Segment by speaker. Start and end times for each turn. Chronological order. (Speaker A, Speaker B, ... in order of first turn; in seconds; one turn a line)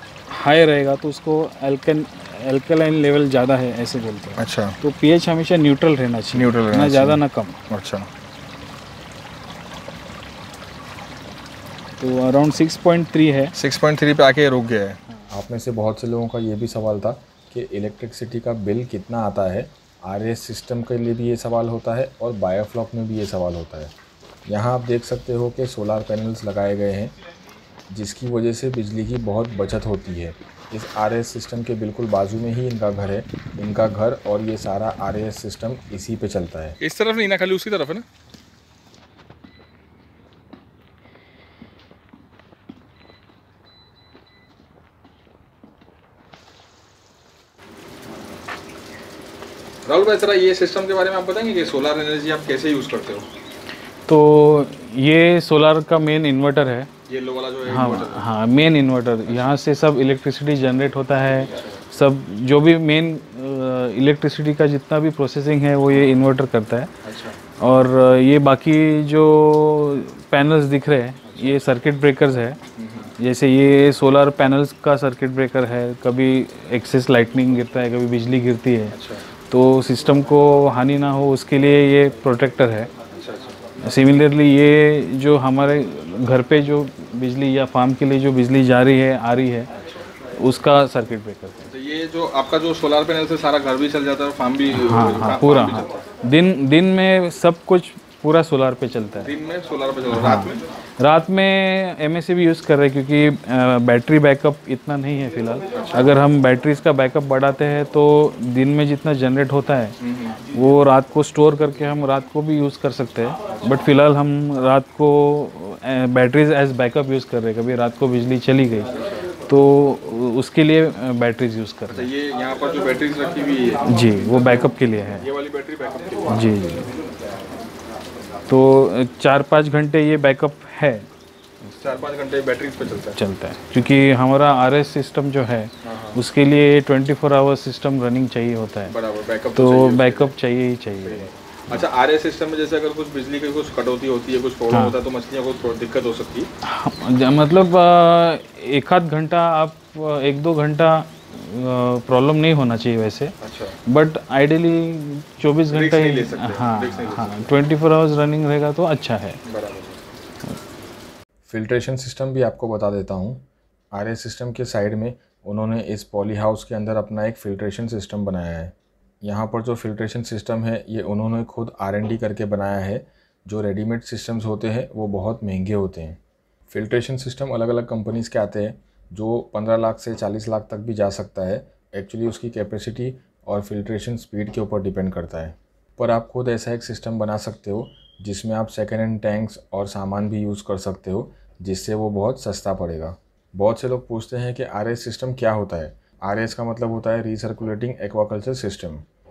Speaker A: 0.3-7.6
Speaker B: 4.4-4.7
Speaker B: 6.3-8.1
Speaker A: 12.0-13.5
Speaker B: 13.6-15.0
Speaker C: 15.3-23.9
Speaker C: 24.5-27.1
Speaker C: 27.9-36.8
Speaker B: 36.8-38.0
Speaker B: 49.9-53.3
Speaker A: 54.1-56.9
Speaker B: 57.1-58.2
Speaker A: 57.6-66.9
Speaker B: 59.3-59.5
Speaker B: 67.0-67.3
Speaker A: 67.6-72.6
Speaker B: 72.8-73.1
Speaker A: 73.2-82.9
Speaker B: 78.9-79.2
Speaker B: 83.1-83.6
Speaker A: 83.8-89.7
Speaker A: 90.4-91.7
Speaker B: 91.7-95.9
Speaker A: 94.7-99.4
Speaker B: 99.2-100.6
Speaker A: 100.1-122.1
Speaker B: 105.7-106.1
Speaker B: 110.1-110.4
Speaker B: 121.9-123.9
Speaker A: 123.8-125.3
Speaker B: 125.2-126.3
Speaker A: 126.3-126.9
Speaker A: 128.5-131.1
Speaker B: 131.8-133.2
Speaker A: 133.1-138.9
Speaker B: 135.8-136.2
Speaker B: 138.9-140.3
Speaker A: 139.5-141.3
Speaker B: 141.1-146.5
Speaker A: 144.7-145.0
Speaker A: 146.6-153.3
Speaker B: 153.4-153.8
Speaker A: 153.9-159.4
Speaker B: 155.7-157.4
Speaker B: 159.4-160.0
Speaker C: 161.5-199.1